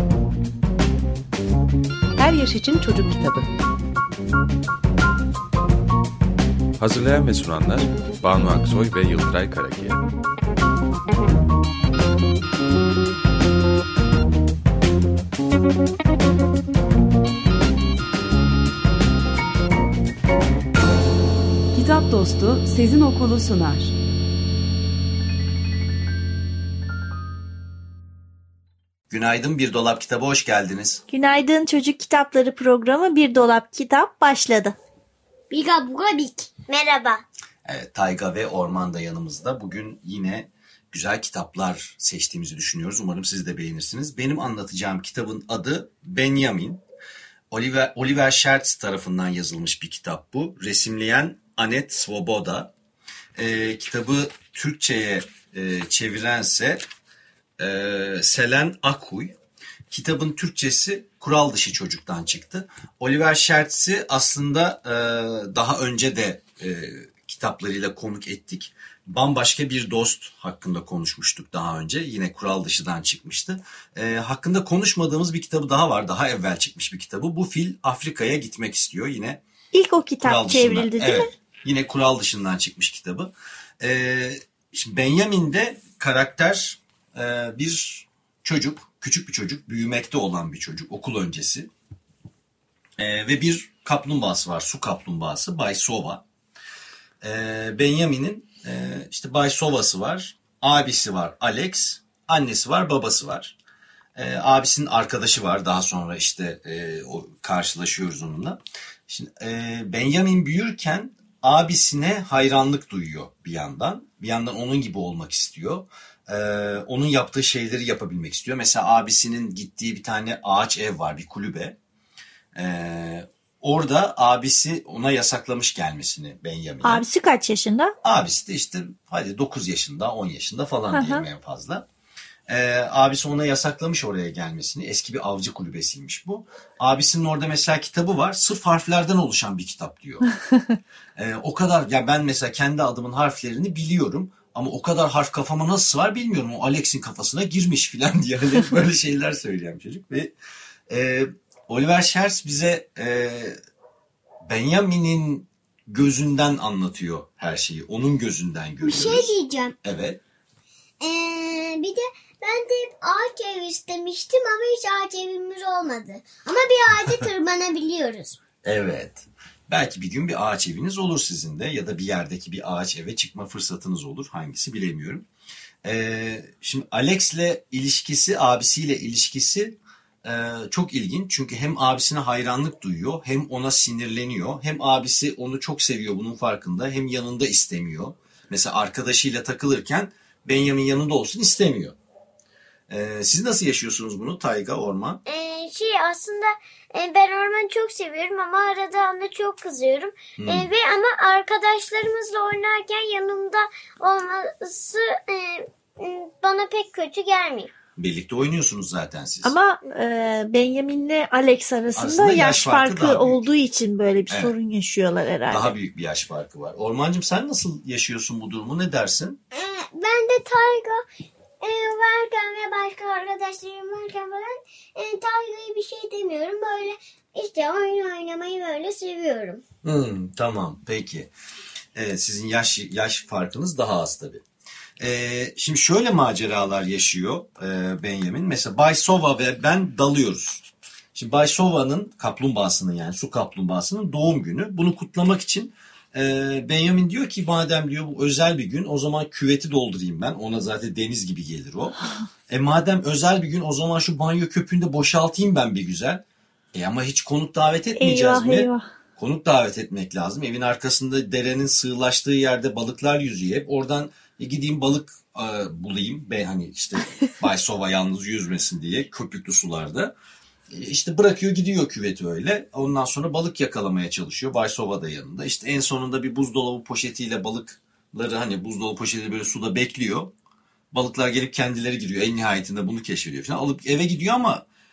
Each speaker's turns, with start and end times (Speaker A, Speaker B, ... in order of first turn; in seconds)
Speaker A: 2.2-3.5, 21.7-23.9
Speaker B: 6.8-10.0
Speaker C: 29.1-31.0, 37.6-46.8, 47.5-52.7, 53.4-56.8, 57.6-59.4, 59.9-79.4, 80.2-91.7, 93.0-96.2, 97.2-103.6, 104.2-121.8, 122.5-127.0, 128.0-131.9, 132.5-140.3, 141.2-150.3, 150.9-153.6, 154.4-160.2, 168.6-175.3, 175.8-191.9, 192.9-195.2, 200.4-200.7, 208.0-209.6, 211.9-213.5, 214.3-214.5, 215.5-219.4, 229.8-231.3, 231.9-234.4, 235.0-252.0, 252.5-256.2, 256.7-270.1, 270.7-280.3, 280.9-284.6
Speaker D: 31.1-34.8, 79.7-81.3, 126.8-127.9, 130.9-131.3, 209.4-215.7, 258.0-258.9
Speaker E: 35.5-37.2, 158.8-159.8, 161.0-168.4, 195.3-207.7, 219.5-221.0, 221.6-229.6